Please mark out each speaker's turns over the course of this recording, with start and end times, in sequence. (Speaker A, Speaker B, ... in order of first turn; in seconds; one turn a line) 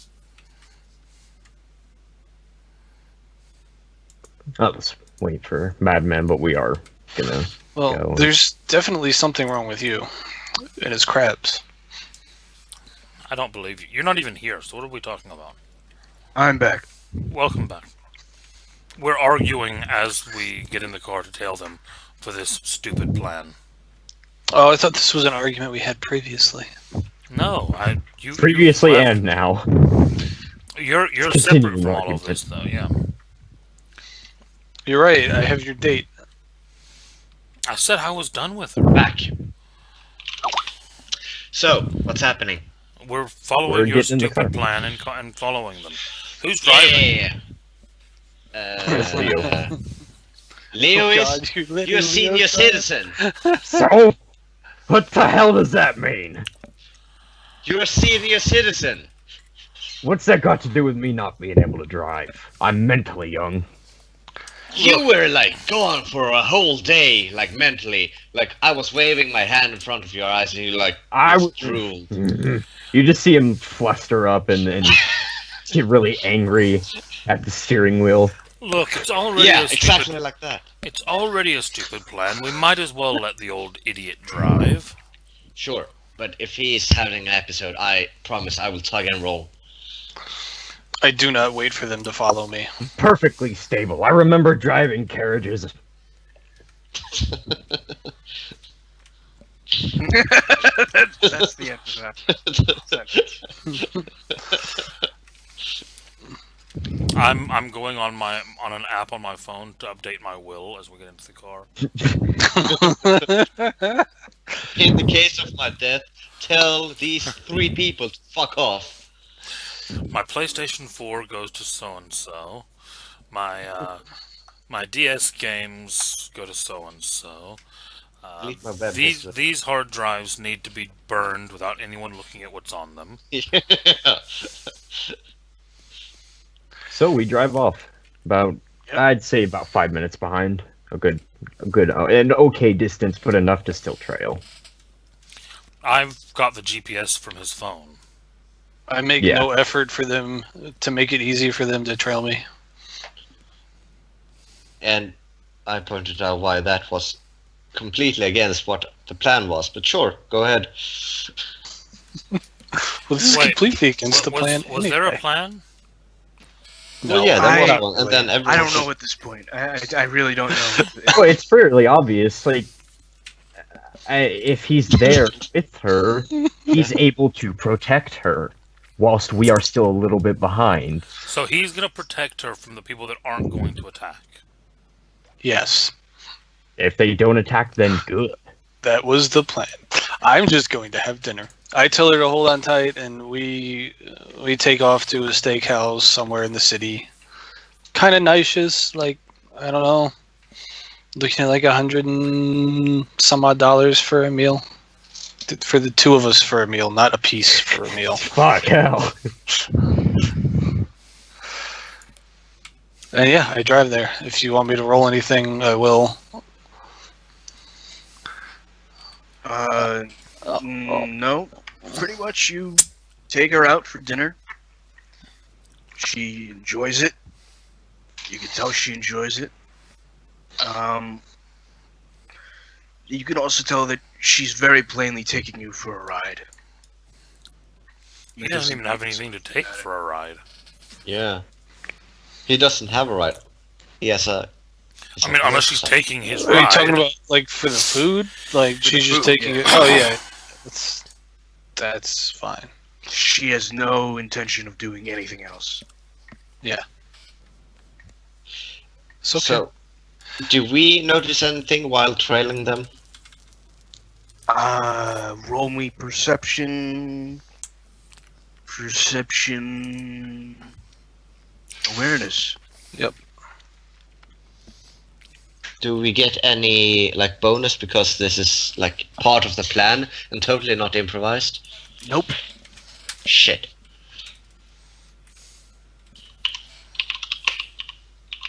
Speaker A: 4.6-8.3
Speaker B: 7.7-10.1
Speaker B: 10.8-11.6
Speaker C: 13.3-15.6
Speaker D: 16.3-16.8
Speaker C: 17.2-17.9
Speaker C: 19.0-23.6
Speaker B: 24.5-26.7
Speaker C: 27.3-29.1
Speaker A: 28.3-29.6
Speaker C: 30.8-32.9
Speaker A: 31.2-32.4
Speaker B: 34.9-36.1
Speaker C: 37.7-39.0
Speaker E: 38.9-39.3
Speaker E: 41.5-42.6
Speaker C: 43.0-47.1
Speaker A: 43.6-44.5
Speaker E: 46.6-47.3
Speaker E: 48.5-49.7
Speaker A: 48.9-49.6
Speaker B: 48.9-49.7
Speaker E: 50.7-53.1
Speaker B: 50.9-53.8
Speaker A: 53.6-54.1
Speaker A: 54.9-56.5
Speaker E: 57.6-59.1
Speaker A: 60.0-63.6
Speaker E: 64.7-72.1
Speaker A: 71.1-75.0
Speaker A: 75.7-78.3
Speaker C: 78.6-80.1
Speaker E: 79.3-80.6
Speaker C: 80.8-84.9
Speaker E: 85.5-89.5
Speaker B: 91.0-92.7
Speaker A: 92.8-95.7
Speaker D: 100.0-103.1
Speaker E: 102.3-104.9
Speaker C: 107.1-111.7
Speaker B: 112.5-114.0
Speaker E: 112.8-113.2
Speaker E: 114.7-119.0
Speaker C: 120.1-122.7
Speaker C: 123.3-124.0
Speaker C: 124.7-127.6
Speaker C: 128.2-133.2
Speaker E: 128.4-129.3
Speaker E: 133.3-135.1
Speaker A: 136.9-144.4
Speaker C: 145.8-148.0
Speaker B: 148.9-152.4
Speaker A: 149.2-149.5
Speaker E: 154.8-157.2
Speaker E: 157.7-161.3
Speaker B: 163.1-165.2
Speaker C: 163.2-165.6
Speaker B: 167.0-167.9
Speaker E: 167.0-168.9
Speaker D: 167.3-171.2
Speaker A: 171.1-172.7
Speaker A: 174.1-181.1
Speaker C: 181.2-184.4
Speaker B: 185.4-185.9
Speaker A: 186.8-188.4
Speaker B: 188.8-197.1
Speaker B: 197.9-200.1
Speaker B: 201.2-204.6
Speaker B: 205.5-208.2
Speaker A: 208.1-209.1
Speaker B: 213.1-216.2
Speaker D: 219.4-220.1
Speaker B: 220.5-221.1
Speaker D: 220.6-224.4
Speaker D: 226.0-227.1
Speaker D: 228.3-229.5
Speaker D: 230.6-231.2
Speaker D: 233.1-236.4
Speaker D: 238.4-239.8
Speaker C: 238.4-240.4
Speaker E: 241.0-241.4
Speaker E: 242.5-243.4
Speaker E: 244.0-244.5
Speaker E: 245.2-245.9
Speaker C: 245.2-247.0
Speaker B: 246.4-251.0
Speaker D: 248.8-249.7
Speaker B: 251.8-252.7
Speaker D: 253.1-255.8
Speaker B: 259.2-259.6
Speaker E: 259.3-259.7
Speaker E: 260.4-262.9
Speaker D: 264.5-267.4
Speaker D: 268.7-270.6
Speaker D: 271.9-272.6
Speaker E: 275.8-281.6
Speaker D: 282.0-282.3
Speaker E: 283.2-283.7